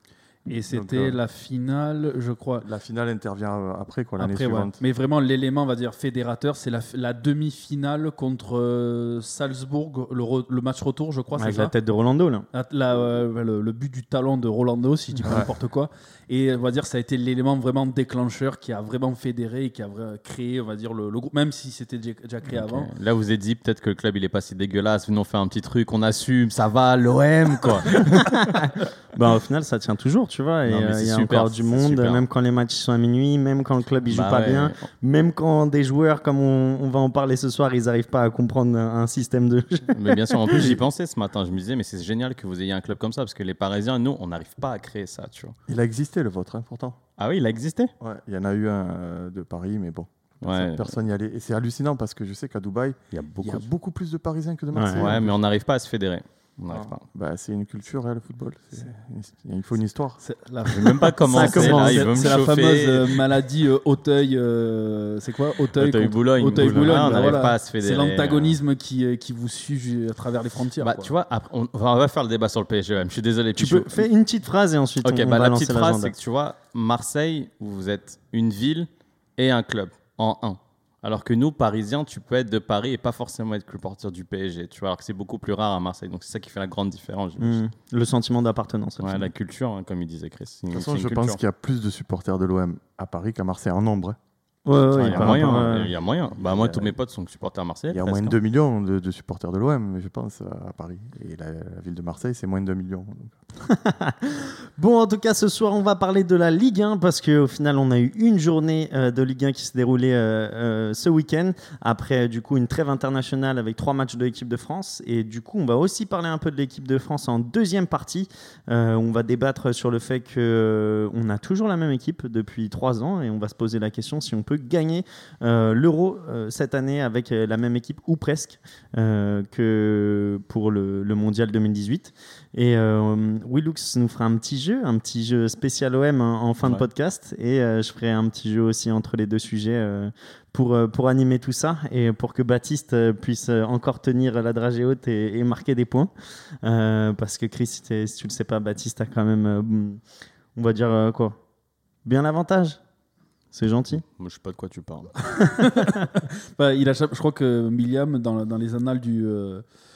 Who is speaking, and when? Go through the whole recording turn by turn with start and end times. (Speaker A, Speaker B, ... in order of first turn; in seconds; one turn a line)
Speaker A: 0.5-2.7
Speaker B: 0.7-1.2
Speaker B: 2.6-4.8
Speaker A: 4.2-11.7
Speaker C: 11.4-12.5
Speaker A: 12.5-22.9
Speaker B: 15.2-15.5
Speaker D: 22.5-28.5
Speaker C: 28.0-40.8
Speaker D: 30.7-32.2
Speaker D: 34.1-34.8
Speaker D: 39.9-45.5
Speaker B: 45.7-47.0
Speaker D: 47.2-47.9
Speaker B: 48.0-55.4
Speaker D: 50.4-51.0
Speaker D: 53.1-53.6
Speaker C: 54.7-55.1
Speaker D: 54.9-57.0
Speaker B: 56.7-60.2
Speaker A: 60.2-71.1
Speaker D: 60.6-63.2
Speaker C: 61.3-62.5
Speaker D: 65.8-68.6
Speaker D: 70.8-74.1
Speaker C: 73.6-76.1
Speaker D: 75.0-87.6
Speaker C: 87.4-89.3
Speaker D: 89.0-91.4
Speaker B: 90.7-94.2
Speaker C: 94.7-95.9
Speaker D: 94.9-98.4
Speaker B: 95.0-97.0
Speaker B: 97.9-103.3
Speaker C: 103.6-146.1
Speaker C: 146.6-150.0
Speaker C: 150.6-151.4
Speaker C: 152.0-152.8
Speaker C: 153.5-154.0
Speaker D: 154.1-155.2
Speaker A: 155.4-159.6